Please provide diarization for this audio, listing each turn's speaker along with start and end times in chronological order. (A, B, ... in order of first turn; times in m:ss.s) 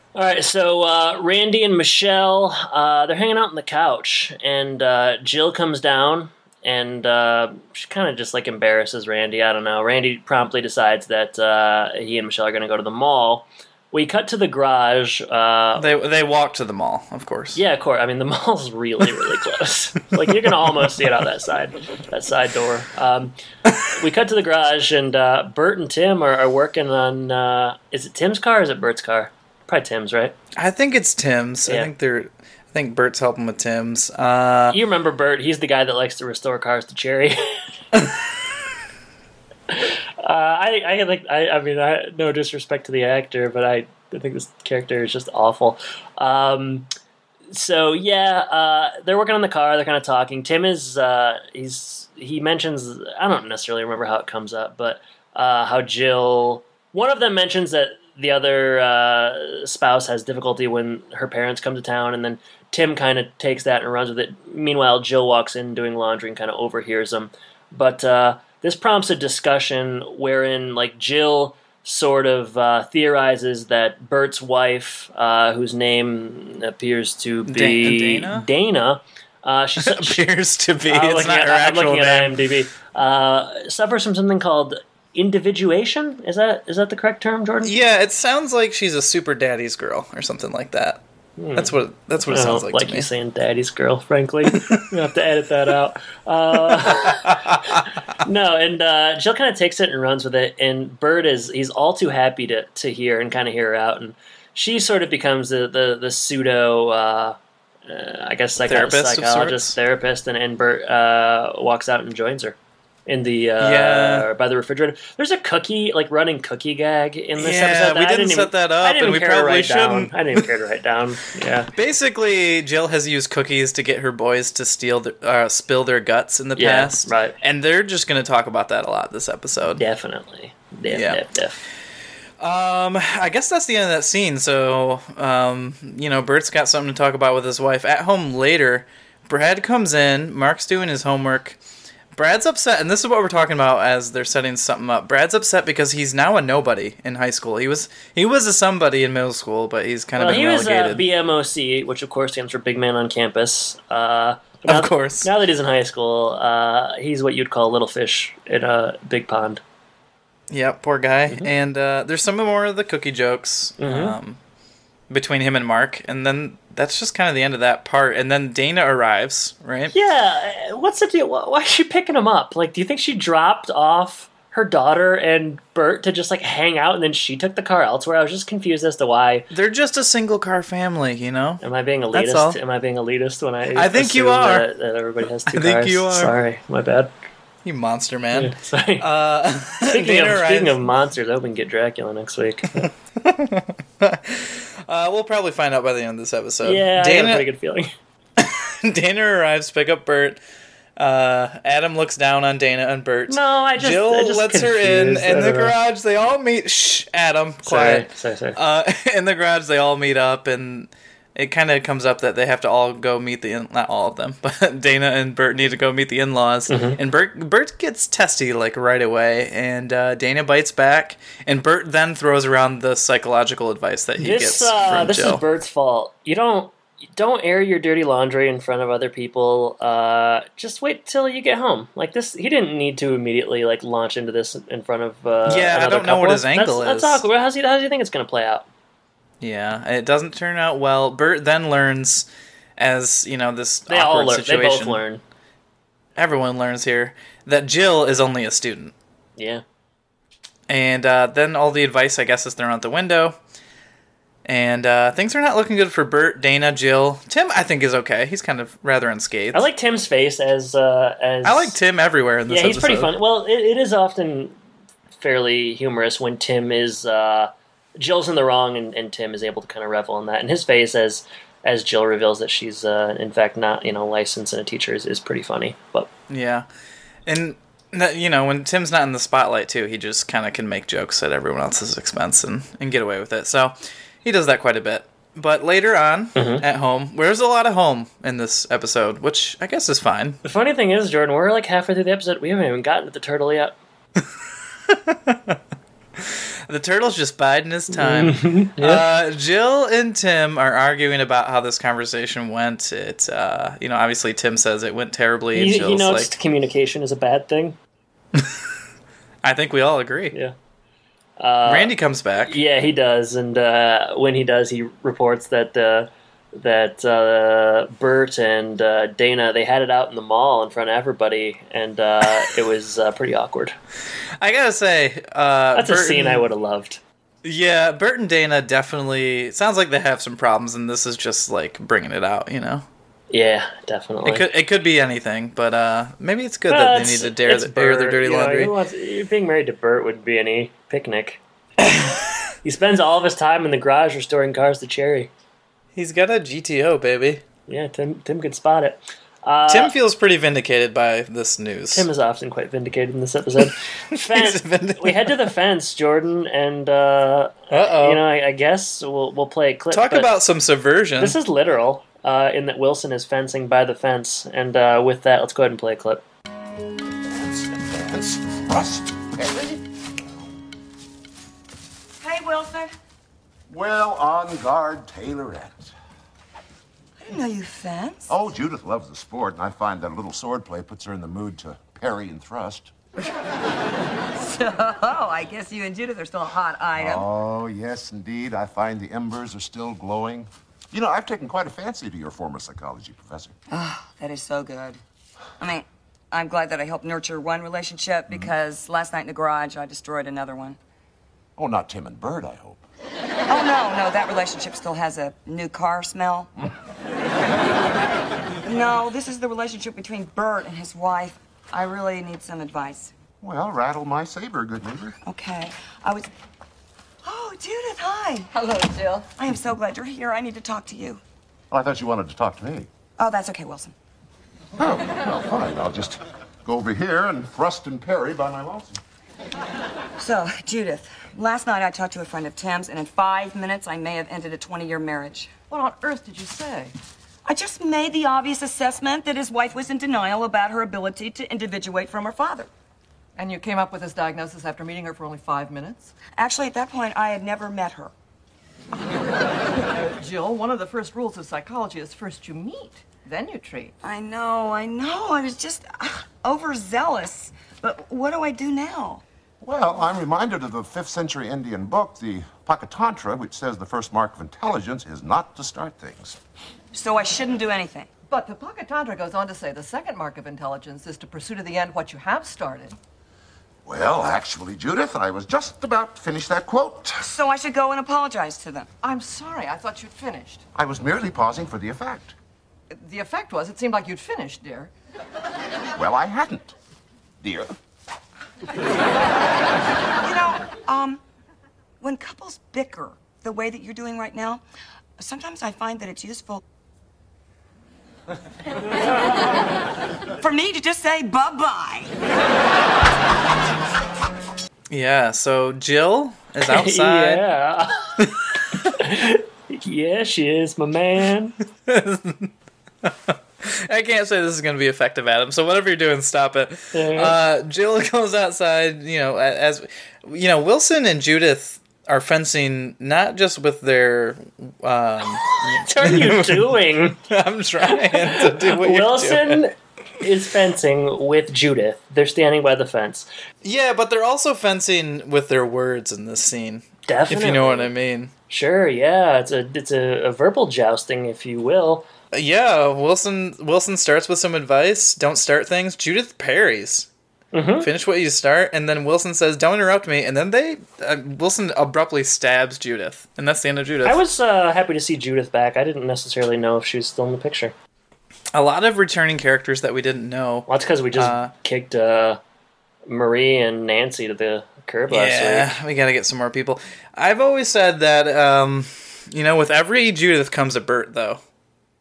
0:00.1-0:15.9 A
0:15.8-0:17.6 B
0:17.5-0:30.3 A
0:30.6-0:34.8 B
0:31.6-0:31.9 A
0:34.7-0:37.6 A
0:39.7-0:46.9 A
0:47.5-1:20.2 A
1:17.5-1:18.5 B
1:19.8-1:22.3 B
1:20.9-1:27.7 A
1:27.6-1:31.0 B
1:31.4-1:31.8 A
1:31.6-1:33.1 B
1:32.3-2:01.7 A
1:34.5-1:34.8 B
1:36.7-1:37.8 B
1:48.6-1:49.8 B
1:53.6-1:54.3 B
1:57.4-2:00.4 B
2:01.7-2:09.8 B
2:06.6-2:07.4 A
2:09.8-2:11.6 A
2:10.9-2:11.2 B
2:12.4-2:21.6 B
2:22.1-2:31.0 B
2:30.2-2:39.6 A
2:34.6-2:35.3 B
2:40.5-2:44.4 B
2:43.8-2:44.2 A
2:45.1-2:49.9 B
2:49.9-2:59.5 A
2:59.5-3:01.6 B
3:01.6-3:07.1 A
3:02.1-3:02.6 B
3:03.7-3:04.6 B
3:05.5-3:06.3 B
3:07.6-3:10.8 B
3:08.3-3:09.1 A
3:09.9-3:12.9 A
3:12.8-3:17.4 B
3:16.6-3:17.9 A
3:18.4-3:20.4 B
3:21.0-3:45.4 B
3:23.3-3:25.7 A
3:27.6-3:28.6 A
3:36.7-3:37.0 A
3:44.2-3:58.7 A
3:55.5-3:57.2 B
3:59.4-4:05.0 B
4:03.9-4:05.2 A
4:06.2-4:08.9 B
4:09.4-4:09.6 A
4:10.7-4:13.4 B
4:14.4-4:19.7 B
4:19.5-4:21.8 A
4:21.4-4:23.1 B
4:22.5-4:24.6 A
4:25.2-4:36.1 A
4:36.3-4:36.6 B
4:37.2-4:50.4 B
4:46.3-4:46.6 A
4:50.4-4:53.8 A
4:54.9-4:55.6 B
4:56.7-5:06.3 B
4:57.9-4:59.0 A
5:05.5-5:07.8 A
5:09.4-5:10.3 B
5:11.4-5:11.9 A
5:11.6-5:12.6 B
5:12.4-5:23.7 A
5:24.4-5:26.5 B
5:25.7-5:27.0 A
5:27.4-5:32.8 B
5:33.3-5:34.4 A
5:34.2-5:38.7 B
5:36.7-5:41.4 A
5:41.8-5:42.2 B
5:42.6-5:45.3 A
5:46.0-5:47.4 B
5:47.7-5:49.9 A
5:49.7-5:52.0 B
5:51.9-6:00.3 A
5:54.1-5:55.4 B
5:57.7-5:58.2 B
5:59.9-6:01.4 B
6:01.2-6:06.2 A
6:07.3-6:10.5 C
6:12.2-6:12.9 D
6:13.7-6:15.9 C
6:17.2-6:18.3 D
6:18.3-6:22.9 C
6:24.3-6:27.3 D
6:27.0-6:33.6 C
6:33.7-6:35.0 D
6:35.6-6:40.8 D
6:41.6-6:42.8 C
6:43.5-6:46.5 D
6:48.6-6:53.1 D
6:53.4-6:55.2 C
6:55.2-6:56.3 D
6:57.2-6:58.5 D
6:58.5-6:59.3 E
6:59.4-7:01.2 D
7:01.7-7:02.9 C
7:03.2-7:03.9 D
7:04.8-7:09.0 C
7:10.2-7:15.5 D
7:15.7-7:16.9 E
7:17.4-7:22.7 D
7:23.4-7:26.2 E
7:26.3-7:28.1 D
7:29.0-7:33.9 E
7:34.0-7:39.2 D
7:39.6-7:46.4 C
7:46.9-7:48.1 D
7:48.3-7:53.0 E
7:53.8-7:57.2 C
7:57.2-7:58.9 D
7:59.0-8:00.6 E
8:00.7-8:02.3 C
8:02.9-8:04.9 E
8:05.9-8:06.7 C
8:07.4-8:07.8 C
8:10.2-8:11.2 D
8:12.0-8:14.6 D
8:15.2-8:16.6 D
8:20.4-8:22.2 D
8:24.9-8:27.4 B
8:26.6-8:28.3 A
8:28.2-8:28.9 B
8:28.8-8:31.5 A
8:31.8-8:32.5 B
8:33.0-8:49.6 B
8:36.9-8:37.3 A
8:45.4-8:47.2 A
8:47.9-8:53.3 A
8:53.6-8:58.3 B
8:57.1-8:57.9 A
8:58.5-9:02.0 A
9:02.3-9:07.1 B
9:07.5-9:07.9 A
9:07.8-9:14.2 B
9:14.0-9:17.7 A
9:18.5-9:21.5 B
9:20.7-9:22.4 A
9:23.1-9:25.7 A
9:25.1-9:31.4 B